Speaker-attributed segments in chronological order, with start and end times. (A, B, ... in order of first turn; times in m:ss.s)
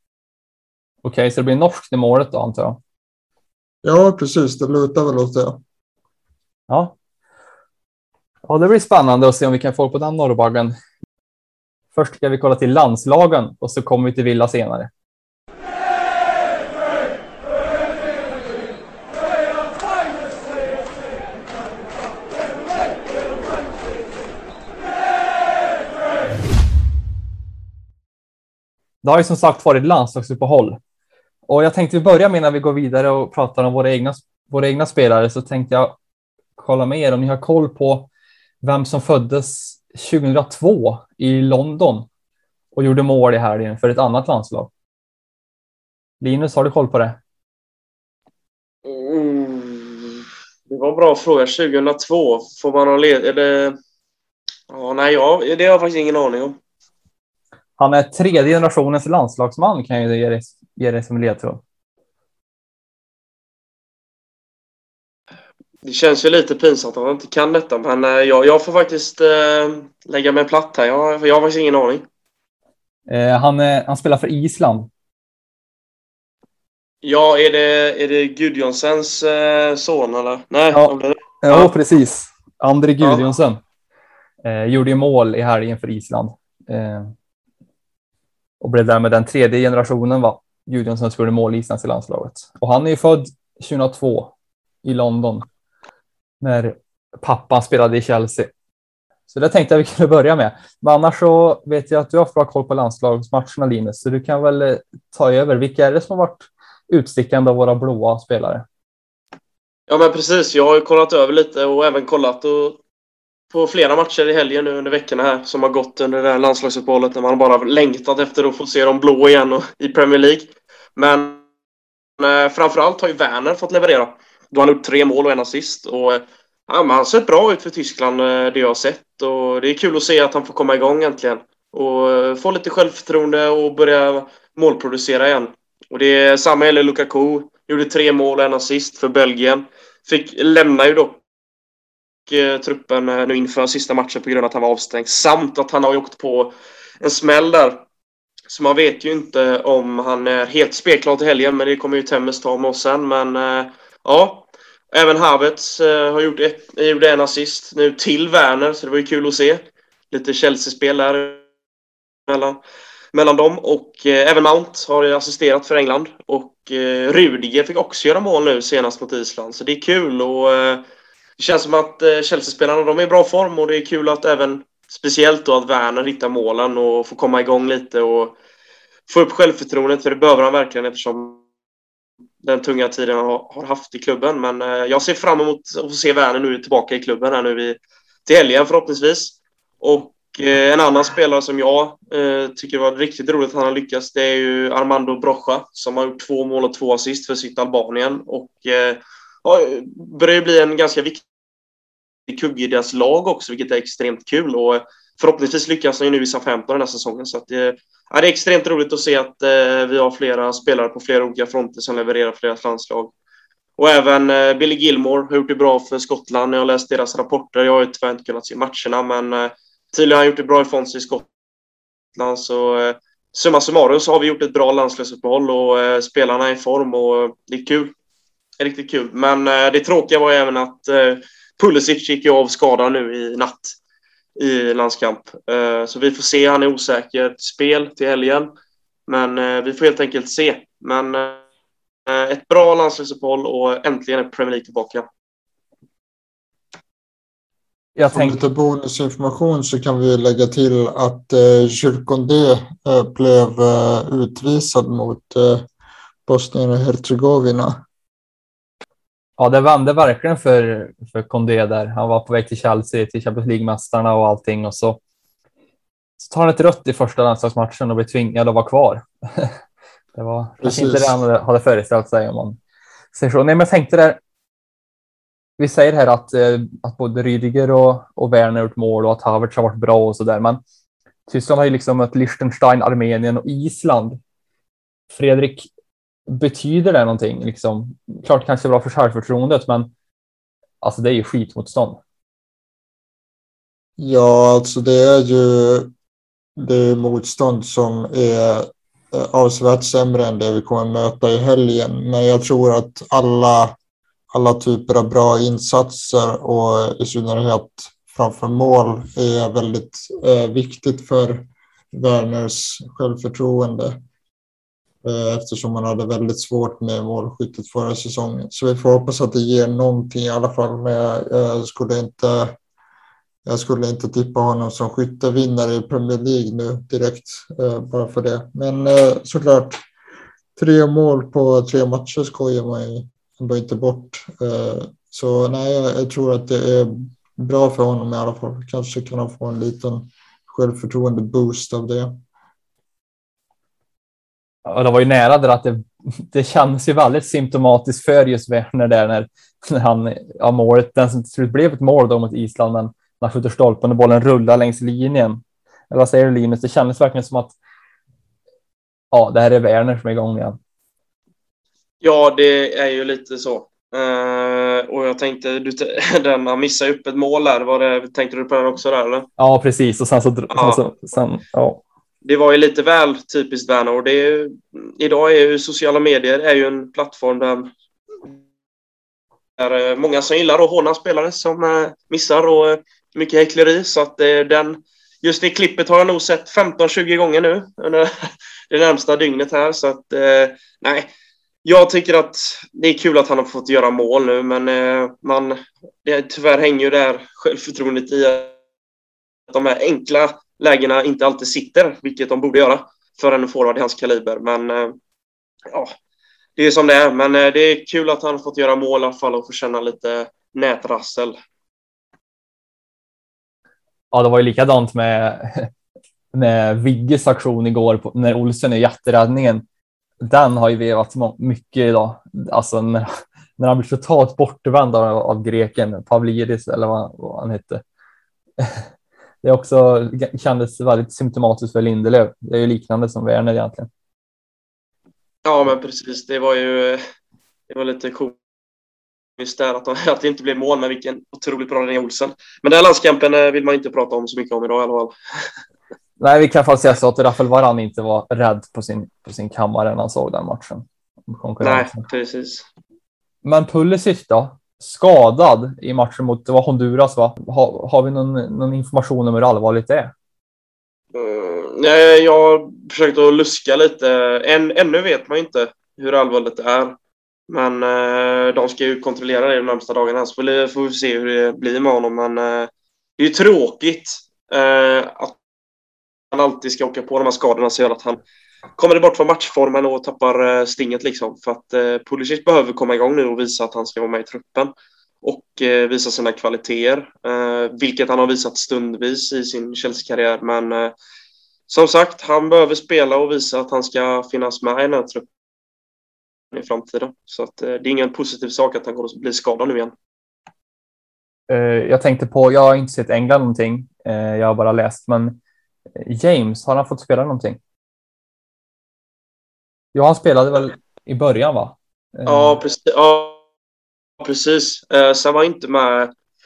0:01.0-0:02.8 A
0:03.8-0:05.6 B
0:06.7-0:07.0 A
0:08.5-0:10.8 A
0:11.9-0:14.9 A
0:29.0-0:30.8 A
0:31.5-0:36.0 A
0:36.6-0:38.1 A
0:38.6-0:42.1 A
0:42.8-0:44.7 A
0:46.2-0:47.2 A
0:48.8-0:53.8 C
0:54.7-0:56.6 C
0:57.8-1:01.6 A
1:05.8-1:12.0 C
1:13.1-1:14.9 A
1:17.0-1:21.7 C
1:20.7-1:23.6 A
1:24.4-1:27.1 A
1:28.6-1:34.3 A
1:34.8-1:35.5 A
1:36.4-1:38.5 A
1:39.3-1:48.7 A
1:49.9-1:52.8 C
1:53.5-2:01.4 C
2:02.2-2:21.2 C
2:22.3-2:27.8 C
2:28.5-2:41.4 C
2:42.3-2:42.6 C
2:43.1-2:50.8 C
2:51.4-2:58.4 C
2:59.1-3:01.4 C
3:02.4-3:21.2 C
3:22.3-3:33.1 C
3:33.8-3:41.2 C
3:42.2-3:47.9 C
3:48.6-3:53.8 C
3:54.4-3:58.5 C
3:59.1-4:01.4 C
4:02.1-4:05.1 C
4:08.0-4:08.4 A
4:08.1-4:15.7 B
4:16.3-4:17.8 B
4:19.4-4:25.0 A
4:26.2-4:29.6 A
4:30.2-4:32.6 A
4:30.6-4:31.2 B
4:33.1-4:34.2 A
4:35.6-4:40.6 A
4:41.3-4:44.2 A
4:45.1-4:45.7 A
4:46.3-4:49.9 A
4:50.8-4:52.0 A
4:54.0-4:55.9 B
4:56.6-5:03.8 B
5:04.3-5:14.0 B
5:15.0-5:22.6 B
5:23.5-5:29.8 B
5:30.6-5:42.2 B
5:44.7-5:57.6 A
5:59.1-6:00.6 A
6:02.0-6:09.3 C
6:09.4-6:11.8 A
6:10.5-6:10.8 C
6:12.2-6:17.7 C
6:19.6-6:31.1 C
6:31.6-6:38.5 C
6:39.5-6:45.0 C
6:46.6-6:51.4 C
6:54.1-6:55.7 A
6:56.3-6:59.6 A
7:00.2-7:07.8 A
7:08.6-7:08.9 A
7:09.4-7:13.9 A
7:15.4-7:17.0 C
7:17.7-7:18.4 C
7:19.4-7:25.2 C
7:26.2-7:32.0 A
7:31.6-7:32.6 C
7:33.4-7:40.1 A
7:41.1-7:47.0 C
7:47.5-7:55.4 C
7:56.3-7:58.2 C
7:58.8-8:10.9 C
8:11.7-8:15.3 C
8:16.5-8:19.9 C
8:21.5-8:25.4 A
8:26.0-8:27.6 A
8:29.9-8:32.6 A
8:32.3-8:33.4 C
8:34.2-8:36.1 C